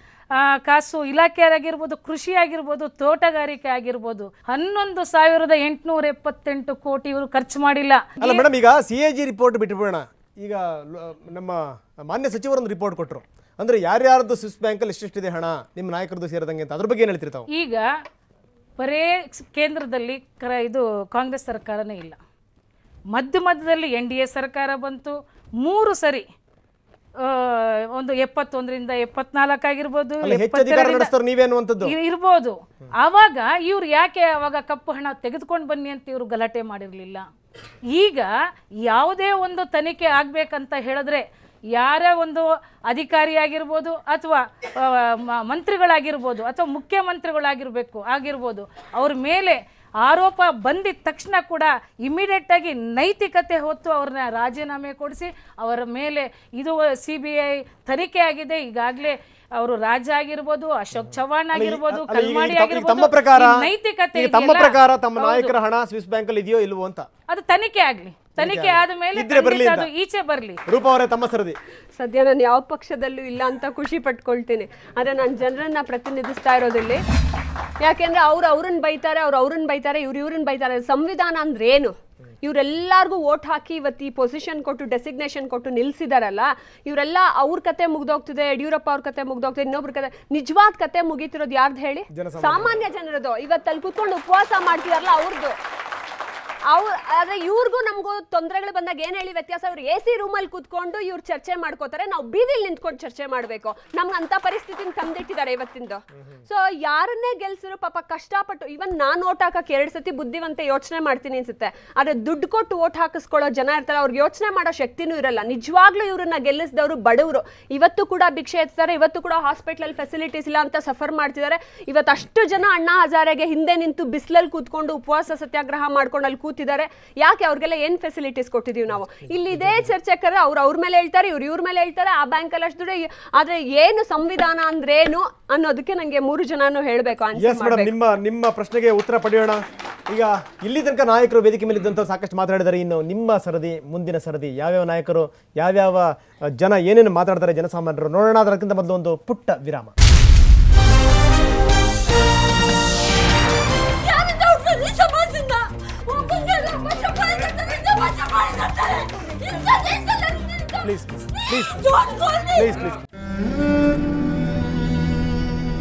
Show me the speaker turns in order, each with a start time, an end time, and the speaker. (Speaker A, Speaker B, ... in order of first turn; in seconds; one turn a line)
Speaker A: 0.3-8.4
Speaker B: 8.2-17.5
Speaker A: 17.5-17.9
Speaker A: 18.8-22.2
Speaker A: 23.1-26.2
Speaker A: 27.2-31.1
Speaker B: 30.2-31.9
Speaker A: 31.8-37.2
Speaker A: 37.9-38.3
Speaker A: 38.8-65.5
Speaker B: 61.5-67.1
Speaker A: 67.3-70.6
Speaker B: 68.3-69.9
Speaker B: 70.7-71.6
Speaker C: 72.0-77.0
Speaker C: 77.8-95.5
Speaker B: 92.1-92.8
Speaker C: 96.7-137.9
Speaker B: 129.5-129.8
Speaker B: 137.3-149.9
Speaker C: 153.9-162.8
Speaker B: 160.8-161.8
Speaker B: 162.6-162.9